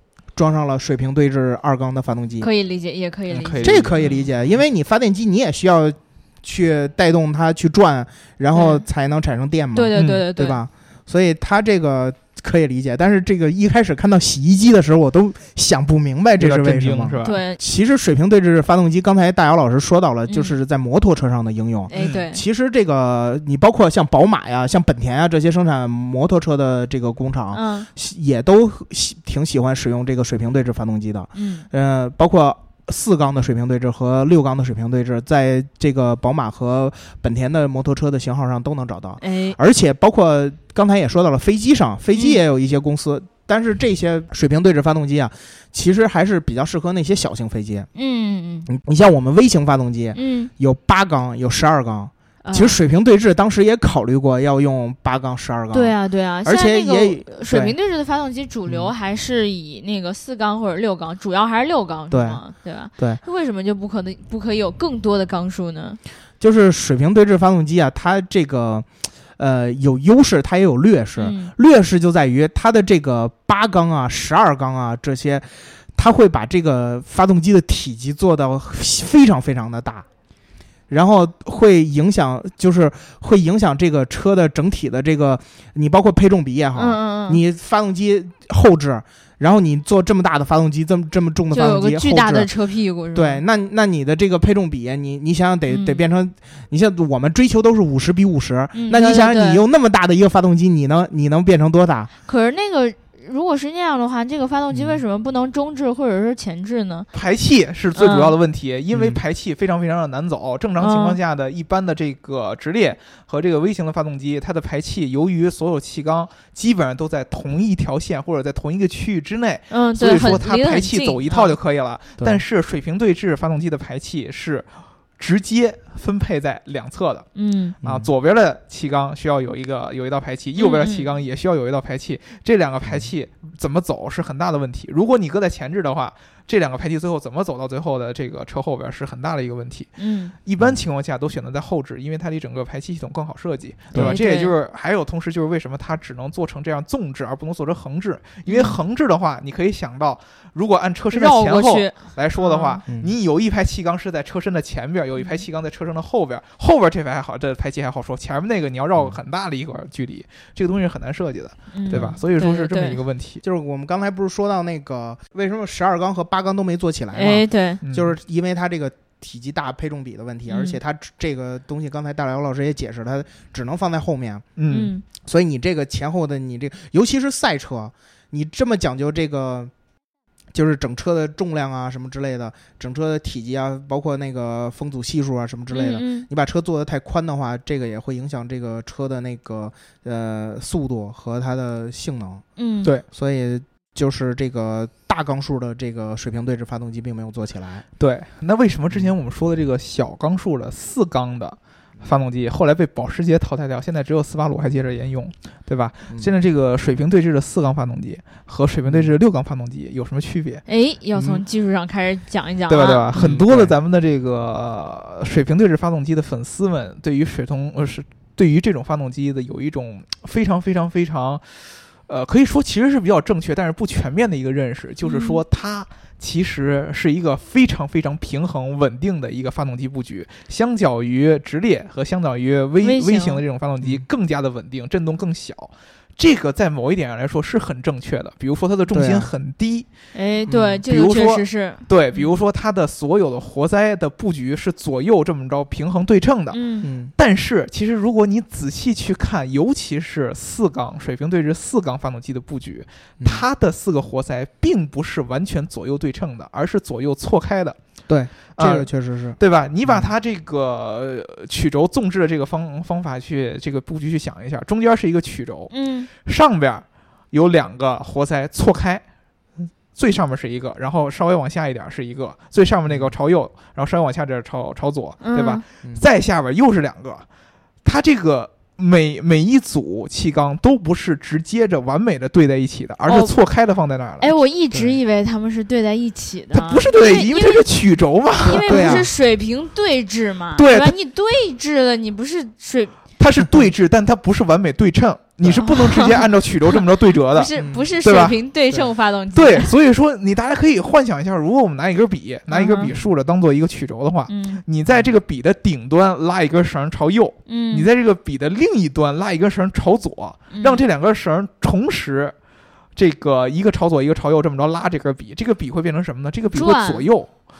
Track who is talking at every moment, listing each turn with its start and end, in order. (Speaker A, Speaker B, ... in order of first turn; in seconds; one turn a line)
Speaker A: 0.3-2.5
Speaker B: 2.4-4.1
Speaker C: 3.3-4.2
Speaker A: 3.6-47.9
Speaker B: 8.5-8.8
Speaker B: 9.7-10.6
Speaker C: 9.9-10.2
Speaker C: 16.4-17.4
Speaker B: 17.2-17.6
Speaker B: 20.3-20.5
Speaker B: 21.9-22.4
Speaker C: 21.9-22.2
Speaker B: 27.5-27.9
Speaker B: 31.3-31.6
Speaker B: 39.2-39.6
Speaker B: 42.1-42.4
Speaker B: 47.9-48.7
Speaker A: 48.7-57.7
Speaker B: 50.1-50.5
Speaker B: 52.4-52.8
Speaker B: 55.7-66.0
Speaker A: 58.7-58.9
Speaker A: 62.1-62.4
Speaker A: 66.4-68.9
Speaker A: 69.4-80.0
Speaker B: 71.2-71.5
Speaker A: 80.9-92.5
Speaker B: 86.7-87.4
Speaker B: 91.5-93.4
Speaker A: 93.1-102.1
Speaker B: 95.7-96.0
Speaker B: 98.7-99.6
Speaker B: 102.2-107.1
Speaker A: 104.7-105.0
Speaker C: 107.1-124.7
Speaker B: 108.0-108.3
Speaker A: 108.9-109.2
Speaker B: 110.8-111.2
Speaker B: 119.7-121.5
Speaker C: 125.2-127.3
Speaker B: 127.3-127.8
Speaker A: 127.8-128.1
Speaker C: 127.8-139.9
Speaker B: 130.6-131.1
Speaker B: 140.0-140.3
Speaker C: 140.4-163.4
Speaker A: 143.9-144.2
Speaker B: 143.9-144.5
Speaker B: 148.5-148.8
Speaker B: 151.1-152.8
Speaker B: 155.2-155.4
Speaker B: 161.7-163.0
Speaker A: 161.9-162.2
Speaker A: 163.4-174.5
Speaker B: 167.1-167.8
Speaker C: 167.8-168.1
Speaker B: 170.5-170.8
Speaker C: 174.6-174.9
Speaker B: 174.7-175.0
Speaker A: 175.2-179.7
Speaker A: 180.5-192.4
Speaker B: 185.7-186.3
Speaker B: 192.6-192.9
Speaker A: 193.1-197.8
Speaker C: 198.0-210.6
Speaker A: 208.8-209.1
Speaker B: 210.7-213.1
Speaker C: 212.7-221.6
Speaker A: 213.1-213.7
Speaker C: 222.1-239.9
Speaker B: 225.0-225.4
Speaker B: 232.8-233.4
Speaker A: 233.8-234.1
Speaker A: 238.9-239.3
Speaker B: 240.1-242.3
Speaker A: 240.5-240.8
Speaker C: 240.8-246.6
Speaker B: 246.5-246.9
Speaker A: 246.8-247.1
Speaker C: 247.2-257.8
Speaker A: 258.1-260.1
Speaker C: 258.5-269.0
Speaker B: 265.7-266.1
Speaker C: 269.6-277.2
Speaker A: 272.9-273.1
Speaker B: 275.2-275.6
Speaker C: 277.8-284.3
Speaker B: 283.1-283.3
Speaker B: 284.2-287.6
Speaker A: 284.7-285.0
Speaker C: 286.5-289.1
Speaker B: 288.4-293.0
Speaker A: 288.6-289.1
Speaker C: 290.6-290.9
Speaker C: 293.2-297.5
Speaker A: 295.4-295.7
Speaker B: 295.6-296.2
Speaker B: 297.3-299.7
Speaker A: 297.6-297.9
Speaker C: 298.0-298.4
Speaker C: 299.3-312.3
Speaker B: 302.5-302.9
Speaker B: 304.3-304.6
Speaker B: 307.5-307.9
Speaker B: 310.5-310.8
Speaker C: 312.9-317.3
Speaker B: 316.5-317.1